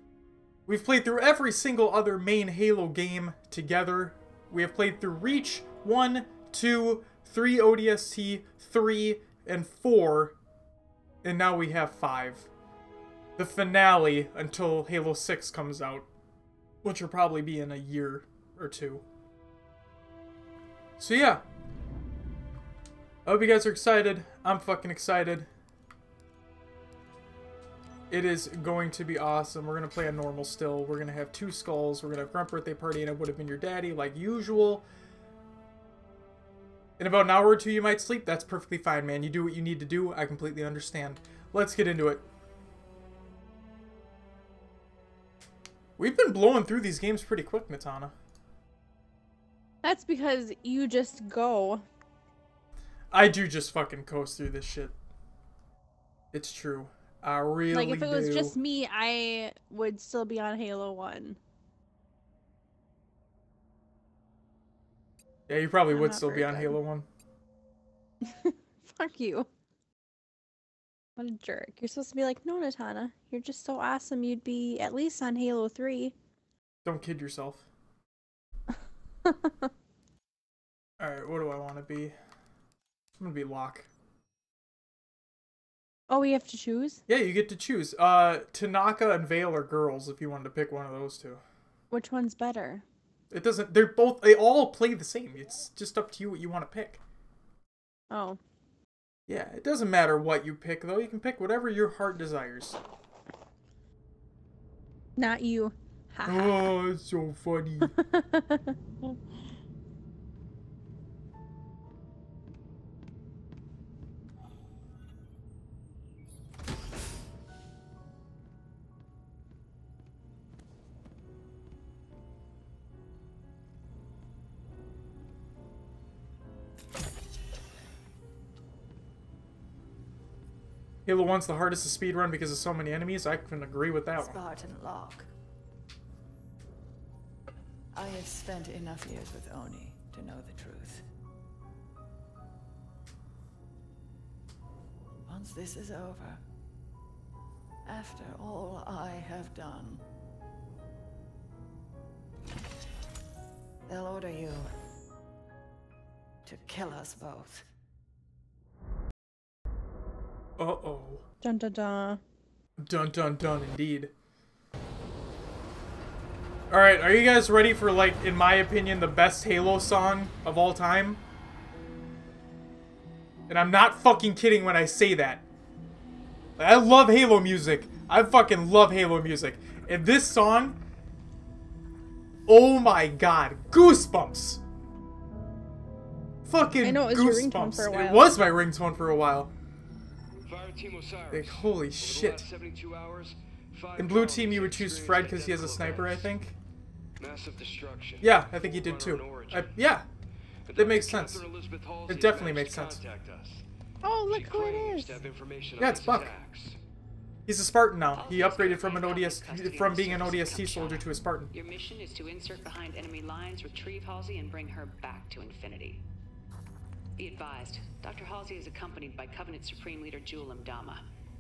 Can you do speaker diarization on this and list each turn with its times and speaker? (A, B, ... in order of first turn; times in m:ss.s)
0:00.7-0:10.4 A
0:11.2-0:12.5 A
0:13.4-0:16.1 A
0:16.8-0:19.0 A
0:21.0-0:21.4 A
0:23.3-0:25.5 A
0:28.1-0:34.8 A
0:37.0-0:42.2 A
0:46.0-0:48.1 A
0:49.8-0:51.8 B
0:53.1-0:54.9 A
0:56.3-0:58.5 A
0:57.7-1:01.4 B
1:05.5-1:07.1 A
1:05.9-1:06.8 B
1:08.2-1:09.5 B
1:11.2-1:16.2 B
1:16.8-1:17.6 A
1:19.2-1:19.7 B
1:21.0-1:22.2 A
1:23.2-1:23.9 A
1:26.1-1:27.0 B
1:27.1-1:31.4 A
1:31.9-1:32.8 B
1:33.3-1:37.0 A
1:38.1-1:38.4 B
1:39.3-1:42.8 A
1:45.2-1:46.7 B
1:46.3-1:47.9 A
1:47.8-1:49.2 B
2:11.1-2:14.4 A
2:14.2-2:15.3 C
2:18.0-2:21.0 C
2:25.3-2:26.4 C
2:27.9-2:30.0 C
2:33.9-2:34.7 C
2:36.5-2:37.6 C
2:40.6-2:41.2 A
2:41.4-2:42.2 B
2:42.8-2:44.1 A
2:46.7-2:51.2 A
2:53.5-2:55.4 A
2:56.6-3:00.8 A
3:02.5-3:04.6 A
3:06.5-3:09.5 A
3:06.8-3:08.3 B
3:10.5-3:16.4 D
3:11.3-3:12.5 A
3:14.0-3:16.6 A
3:17.2-3:19.8 D
3:18.2-3:20.0 A
3:20.7-3:23.6 D
3:20.8-3:21.5 A
3:22.1-3:23.0 A
3:24.0-3:25.2 B
3:24.2-3:26.8 D
3:25.8-3:26.3 A
3:27.5-3:31.5 A
3:28.2-3:36.0 E
3:37.2-3:41.1 E